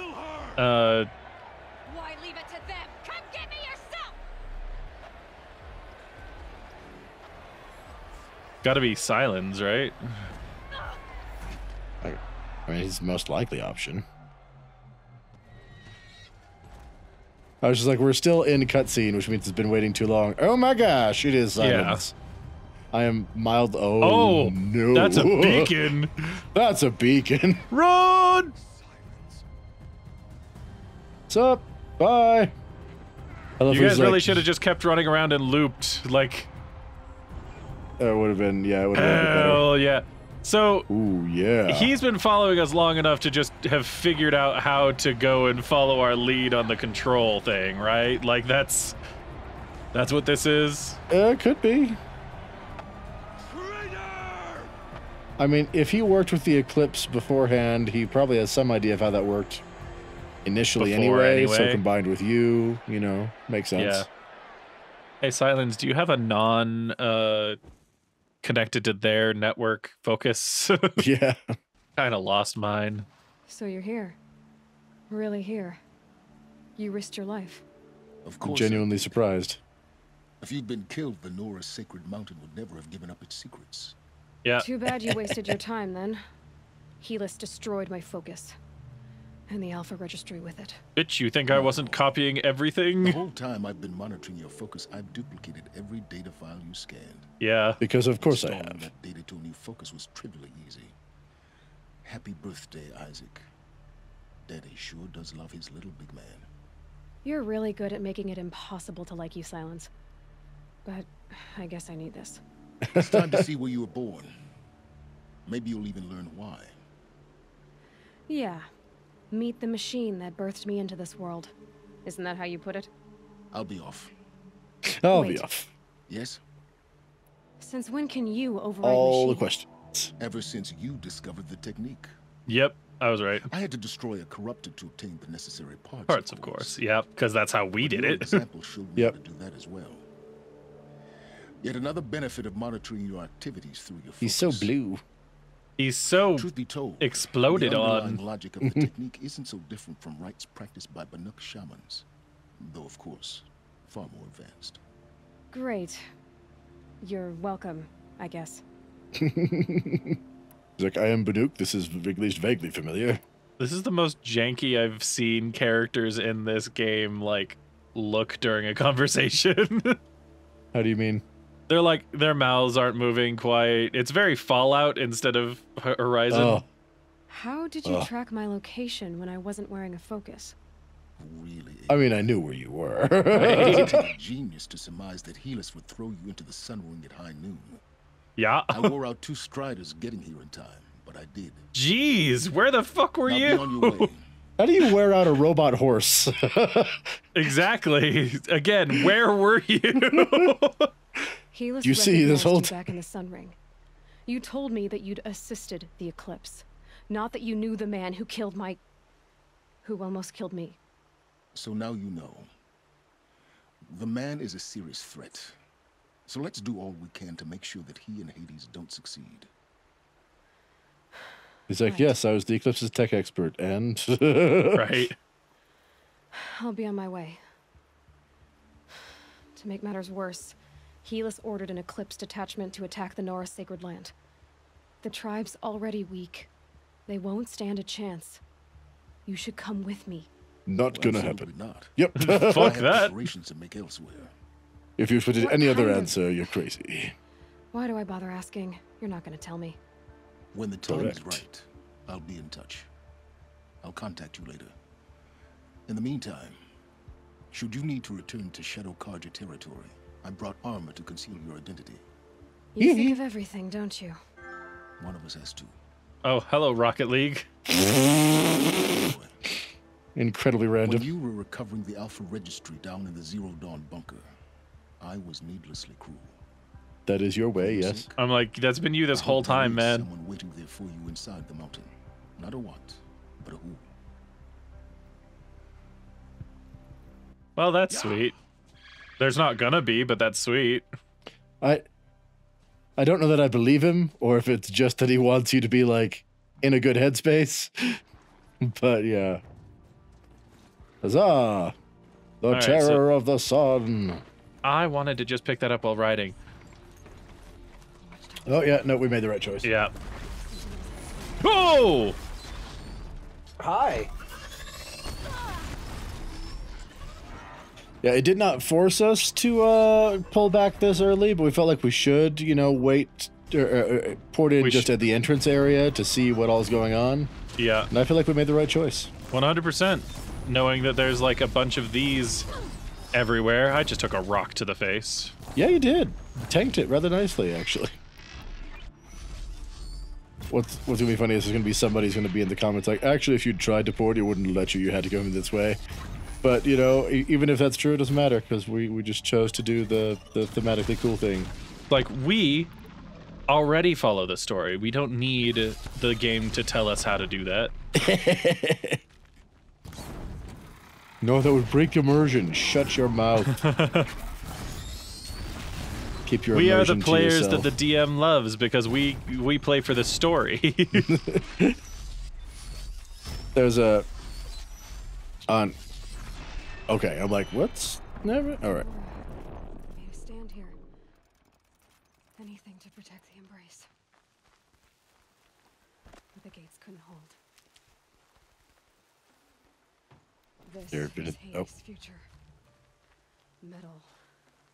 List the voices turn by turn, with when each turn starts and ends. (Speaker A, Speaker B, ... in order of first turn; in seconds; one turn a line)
Speaker A: 0.6-1.1
Speaker B: 1.9-4.1
Speaker A: 8.6-10.0
Speaker C: 12.0-14.1
Speaker C: 17.6-22.1
Speaker A: 21.6-22.0
Speaker C: 22.9-25.9
Speaker A: 24.0-26.4
Speaker C: 26.5-27.7
Speaker A: 27.7-28.5
Speaker C: 31.3-32.5
Speaker C: 33.6-34.5
Speaker A: 33.7-36.5
Speaker C: 38.0-39.6
Speaker A: 38.9-40.9
Speaker C: 40.9-41.9
Speaker A: 41.7-49.0
Speaker A: 49.9-51.0
Speaker C: 51.1-52.0
Speaker C: 55.4-59.6
Speaker C: 60.4-64.1
Speaker A: 60.8-61.8
Speaker A: 63.8-64.0
Speaker A: 65.2-67.6
Speaker A: 68.4-71.0
Speaker C: 71.0-71.5
Speaker A: 72.0-73.1
Speaker B: 73.5-74.2
Speaker B: 75.1-75.8
Speaker B: 76.8-77.6
Speaker D: 78.2-79.2
Speaker C: 78.4-79.6
Speaker D: 80.4-84.0
Speaker A: 84.4-85.5
Speaker B: 84.6-86.2
Speaker B: 87.0-88.5
Speaker B: 89.5-90.8
Speaker A: 91.0-93.2
Speaker D: 91.5-92.0
Speaker D: 93.0-97.3
Speaker A: 97.4-97.8
Speaker C: 97.8-98.9
Speaker D: 98.1-100.9
Speaker D: 102.0-103.4
Speaker D: 104.5-106.5
Speaker B: 107.2-109.9
Speaker B: 110.8-112.4
Speaker C: 112.8-113.5
Speaker D: 112.9-114.3
Speaker D: 115.5-116.7
Speaker B: 118.3-118.7
Speaker B: 119.3-121.5
Speaker B: 122.0-122.9
Speaker D: 123.5-124.1
Speaker C: 124.9-125.7
Speaker B: 125.1-125.4
Speaker D: 126.1-126.4
Speaker B: 127.6-129.5
Speaker C: 128.8-130.1
Speaker D: 130.2-132.1
Speaker A: 132.5-133.5
Speaker D: 133.5-136.8
Speaker A: 136.1-138.4
Speaker D: 137.8-140.1
Speaker D: 141.6-144.7
Speaker C: 144.2-145.0
Speaker A: 145.8-146.5
Speaker D: 146.3-152.1
Speaker A: 147.0-148.2
Speaker C: 148.6-148.9
Speaker D: 152.6-154.8
Speaker B: 155.5-156.0
Speaker B: 157.0-158.6
Speaker C: 159.2-160.2
Speaker C: 160.8-163.2
Speaker A: 163.6-170.0
Speaker C: 170.7-171.2
Speaker A: 171.7-176.6
Speaker C: 176.3-176.6
Speaker B: 177.3-180.5
Speaker D: 181.2-182.1
Speaker C: 181.9-184.1
Speaker A: 183.3-183.9
Speaker D: 183.4-187.8
Speaker A: 188.4-188.9
Speaker D: 188.7-191.6
Speaker A: 191.7-194.1
Speaker D: 193.2-194.2
Speaker C: 194.6-197.1
Speaker A: 197.3-200.9
Speaker C: 200.0-200.5
Speaker B: 201.5-203.6
Speaker C: 201.8-202.9
Speaker B: 204.2-208.8
Speaker B: 209.8-210.8
Speaker D: 211.5-212.5
Speaker D: 213.9-215.6
Speaker D: 216.3-219.5
Speaker C: 221.7-225.1
Speaker B: 221.8-222.2
Speaker A: 224.7-225.2
Speaker B: 226.3-227.4
Speaker B: 229.6-234.1
Speaker B: 235.0-236.5
Speaker B: 237.1-238.4
Speaker B: 239.2-240.3
Speaker C: 240.7-242.8
Speaker D: 240.9-244.3
Speaker A: 242.2-243.2
Speaker C: 245.0-247.1
Speaker B: 245.3-246.2
Speaker B: 247.7-249.8
Speaker D: 250.5-252.9
Speaker C: 250.9-251.4
Speaker D: 253.8-254.7
Speaker D: 255.9-256.6
Speaker D: 257.5-262.0
Speaker B: 262.7-264.2
Speaker C: 262.8-263.2
Speaker D: 265.0-265.7
Speaker A: 266.2-267.5
Speaker C: 267.7-268.8
Speaker D: 268.5-269.4
Speaker C: 270.1-271.1
Speaker D: 270.8-274.2
Speaker D: 275.0-276.4
Speaker C: 277.1-278.1
Speaker D: 277.6-278.1
Speaker A: 278.2-280.1
Speaker D: 279.1-283.9
Speaker A: 287.6-288.3
Speaker D: 288.0-288.2
Speaker A: 289.2-290.9
Speaker C: 293.0-298.0
Speaker C: 298.6-299.4
Speaker C: 301.0-301.7
Speaker C: 302.4-304.2
Speaker A: 302.5-303.0
Speaker A: 304.6-306.4
Speaker B: 308.0-308.9
Speaker C: 308.4-309.7
Speaker A: 309.6-309.9
Speaker B: 310.3-312.1
Speaker A: 311.4-312.1
Speaker C: 313.6-314.1
Speaker C: 318.0-327.3
Speaker A: 324.6-324.9
Speaker A: 327.6-327.9
Speaker C: 327.9-329.1
Speaker A: 329.3-332.5
Speaker A: 333.1-335.3
Speaker C: 335.6-338.0
Speaker C: 340.5-345.8
Speaker C: 346.4-351.5
Speaker A: 351.9-352.7
Speaker A: 353.5-357.7
Speaker C: 357.9-359.0
Speaker C: 361.2-363.5
Speaker A: 363.4-364.1
Speaker C: 366.2-367.7
Speaker A: 366.5-371.1
Speaker C: 371.0-371.8
Speaker C: 373.5-374.1
Speaker C: 375.5-375.8
Speaker C: 376.9-378.9
Speaker B: 378.6-379.3
Speaker B: 379.9-380.8
Speaker B: 382.4-383.9
Speaker B: 386.3-387.4
Speaker B: 390.6-392.2
Speaker C: 390.9-391.7
Speaker B: 393.6-394.1